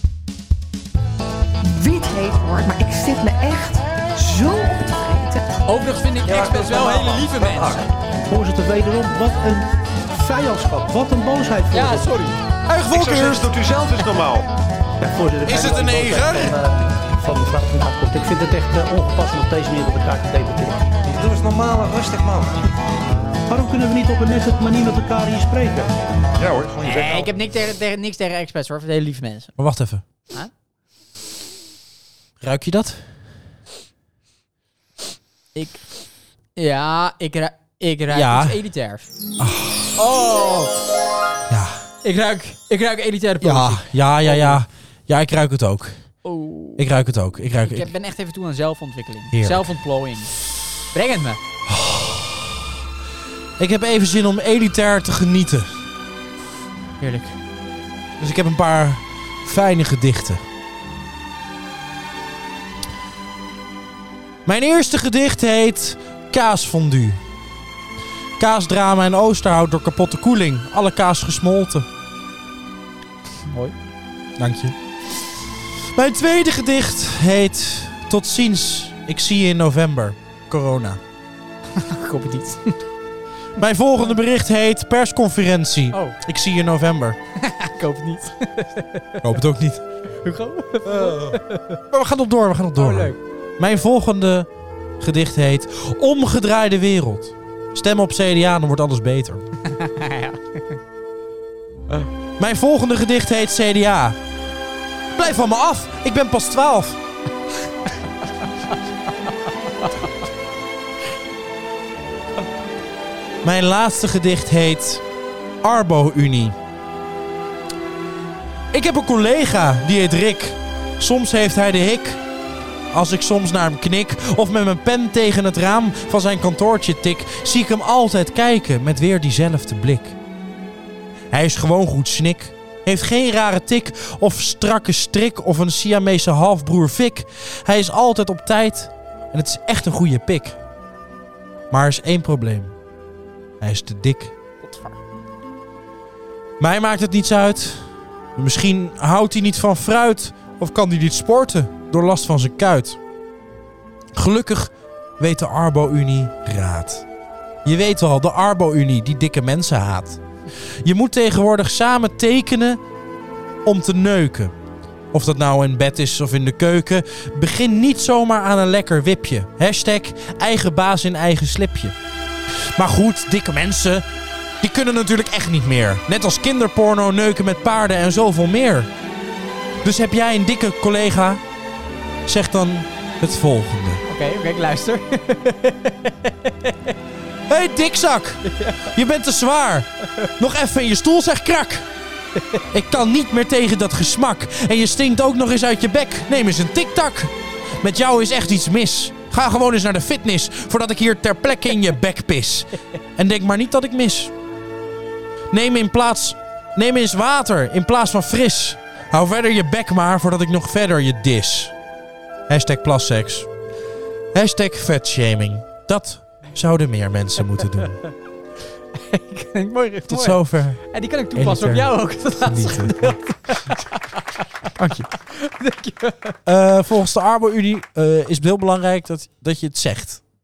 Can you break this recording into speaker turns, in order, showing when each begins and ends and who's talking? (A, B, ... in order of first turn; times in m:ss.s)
0:01.6-0:05.5 A
0:05.6-0:07.8 B
0:06.2-0:07.9 C
0:08.3-0:12.1 D
0:11.7-0:12.4 B
0:12.7-0:13.5 E
0:12.9-0:14.4 C
0:15.0-0:20.9 D
0:15.4-0:16.6 E
0:21.0-0:22.6 C
0:23.5-0:25.9 D
0:26.4-0:27.2 C
0:26.8-0:29.5 B
0:29.6-0:30.0 E
0:32.4-0:33.0 E
0:35.5-0:35.8 B
0:36.6-0:39.1 B
0:38.1-0:38.6 E
0:39.4-0:39.9 E
0:40.0-0:40.8 B
0:41.5-0:41.8 E
0:42.0-0:44.6 B
0:43.4-0:46.0 E
0:46.2-0:46.8 B
0:46.8-0:47.9 E
0:47.6-0:50.3 B
0:49.3-0:49.7 E
0:50.9-0:51.4 B
0:51.6-0:52.7 E
0:53.6-0:55.8 E
0:57.0-0:57.4 B
0:58.2-1:00.4 E
1:04.4-1:07.2 E
1:08.4-1:11.9 E
1:13.4-1:13.7 B
1:14.4-1:14.8 E
1:15.9-1:21.0 E
1:21.7-1:22.8 B
1:23.6-1:27.2 E
1:27.4-1:29.2 B
1:29.2-1:29.8 E
1:30.2-1:31.8 B
1:30.8-1:34.5 E
1:32.8-1:33.2 B
1:35.0-1:39.4 E
1:39.6-1:40.8 B
1:42.4-1:44.2 E
1:45.1-1:47.0 E
1:49.8-1:50.1 B
1:53.4-1:55.0 E
1:55.6-1:56.6 E
1:58.7-2:02.2 E
2:02.9-2:10.2 E
2:11.3-2:20.6 E
2:21.7-2:22.7 E
2:23.6-2:24.3 E
2:24.6-2:25.0 B
2:26.6-2:33.0 E
2:34.1-2:37.0 E
2:37.6-2:40.2 E
2:40.8-2:42.8 E
2:43.6-2:44.5 E
2:45.1-2:51.9 E
2:52.7-2:54.0 E
2:54.6-2:58.9 E
2:59.8-3:01.4 E
3:02.2-3:04.0 E
3:04.1-3:06.9 B
3:07.5-3:11.9 E
3:08.4-3:08.9 B
3:12.7-3:24.3 E
3:25.5-3:31.7 E
3:32.5-3:33.5 E
3:34.3-3:38.0 E
3:38.9-3:46.4 B
3:40.1-3:40.8 E
3:41.3-3:43.2 E
3:44.8-3:45.1 E
3:46.4-3:50.2 E